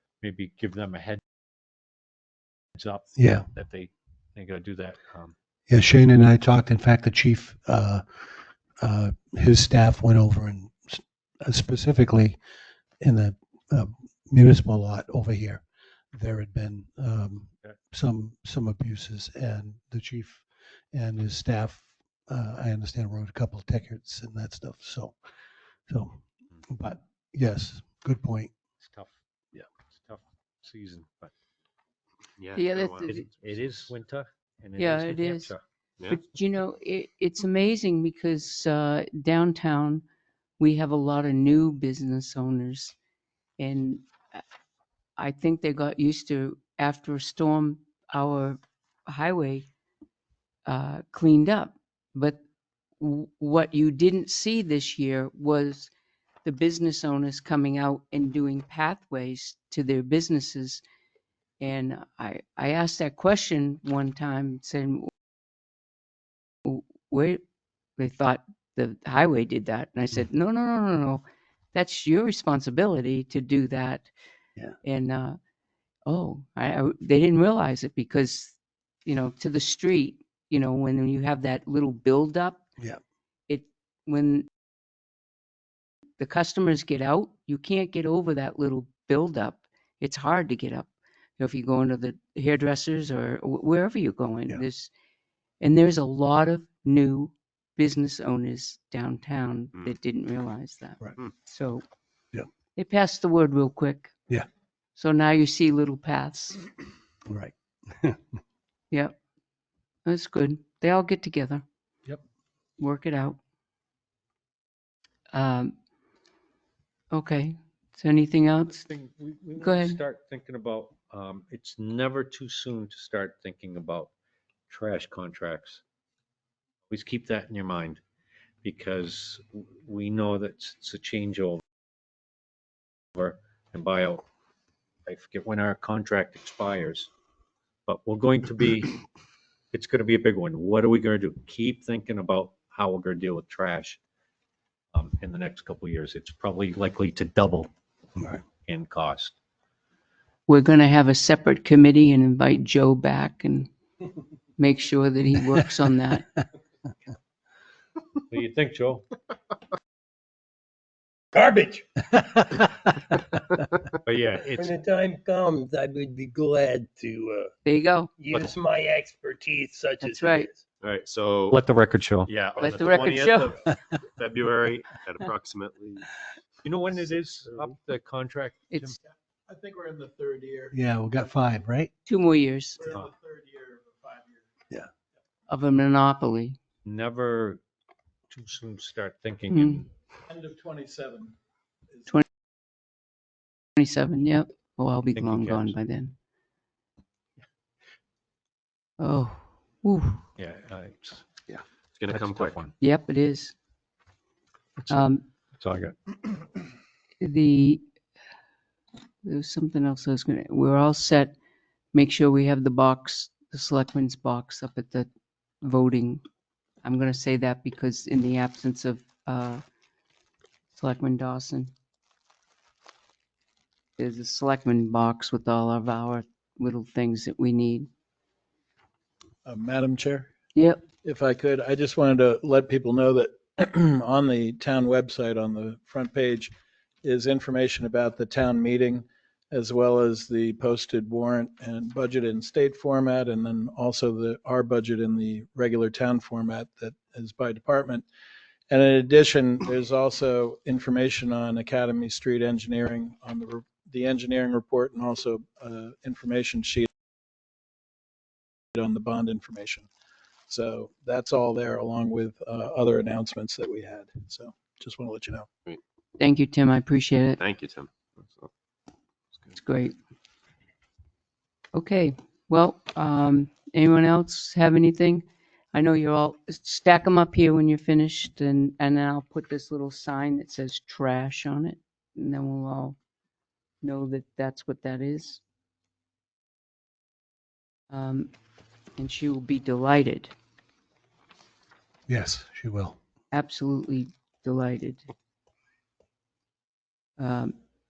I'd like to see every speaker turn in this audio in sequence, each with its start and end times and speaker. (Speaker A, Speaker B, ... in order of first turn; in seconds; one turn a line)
Speaker A: 0.2-1.2
Speaker A: 2.8-5.3
Speaker B: 3.1-3.5
Speaker B: 5.7-12.4
Speaker B: 13.0-25.1
Speaker B: 25.9-28.5
Speaker A: 28.8-29.1
Speaker A: 29.9-31.3
Speaker C: 32.4-33.3
Speaker D: 32.5-33.2
Speaker A: 33.0-35.6
Speaker D: 34.8-35.5
Speaker D: 36.1-40.0
Speaker D: 40.6-42.9
Speaker D: 43.6-44.4
Speaker D: 45.2-49.6
Speaker D: 50.6-52.4
Speaker D: 53.0-55.9
Speaker D: 56.4-60.8
Speaker D: 61.6-65.1
Speaker D: 66.6-67.4
Speaker D: 68.0-71.2
Speaker D: 71.7-74.1
Speaker D: 74.8-75.4
Speaker D: 76.0-82.6
Speaker D: 83.5-84.5
Speaker D: 86.2-94.9
Speaker D: 95.6-101.8
Speaker D: 102.8-104.1
Speaker D: 105.0-106.6
Speaker B: 107.3-108.2
Speaker D: 110.0-111.6
Speaker D: 112.8-113.4
Speaker D: 115.3-115.7
Speaker D: 117.1-118.8
Speaker A: 118.7-124.1
Speaker D: 119.6-120.0
Speaker A: 124.7-125.8
Speaker A: 126.9-128.0
Speaker A: 128.6-131.6
Speaker A: 133.2-134.2
Speaker A: 135.1-137.1
Speaker A: 137.8-139.0
Speaker A: 139.7-144.0
Speaker A: 144.9-147.7
Speaker A: 148.7-149.3
Speaker D: 150.5-153.7
Speaker D: 154.6-156.4
Speaker A: 158.3-159.1
Speaker E: 161.3-161.8
Speaker A: 164.0-164.7
Speaker E: 164.6-167.5
Speaker D: 167.6-168.1
Speaker E: 168.2-170.6
Speaker D: 170.0-170.5
Speaker C: 170.8-171.6
Speaker A: 171.5-172.3
Speaker C: 172.2-176.1
Speaker D: 172.6-173.6
Speaker A: 176.6-178.9
Speaker F: 179.1-180.7
Speaker B: 180.7-181.9
Speaker D: 182.1-182.9
Speaker F: 182.8-184.5
Speaker D: 185.5-186.6
Speaker A: 186.8-187.6
Speaker A: 188.3-189.9
Speaker D: 189.5-189.8
Speaker F: 190.3-191.3
Speaker D: 193.8-196.1
Speaker A: 195.1-195.7
Speaker D: 199.0-200.2
Speaker A: 200.3-201.3
Speaker C: 201.5-202.7
Speaker A: 202.1-202.7
Speaker D: 202.8-203.5
Speaker D: 204.9-205.2
Speaker A: 205.6-205.9
Speaker D: 207.2-207.8
Speaker D: 209.2-211.3
Speaker D: 211.9-215.1
Speaker D: 215.6-216.2
Speaker D: 216.8-219.6
Speaker D: 220.7-221.7
Speaker D: 224.0-227.9
Speaker F: 229.4-230.3
Speaker D: 230.5-230.8
Speaker F: 231.0-248.1
Speaker F: 248.7-256.9
Speaker F: 258.7-259.9
Speaker F: 260.5-265.5
Speaker D: 266.2-267.4
Speaker C: 267.4-268.5
Speaker D: 269.5-269.9
Speaker D: 271.7-283.0
Speaker D: 283.8-285.4
Speaker D: 287.9-288.3
Speaker D: 289.0-290.3
Speaker B: 292.1-292.9
Speaker D: 293.3-295.1
Speaker D: 297.2-297.5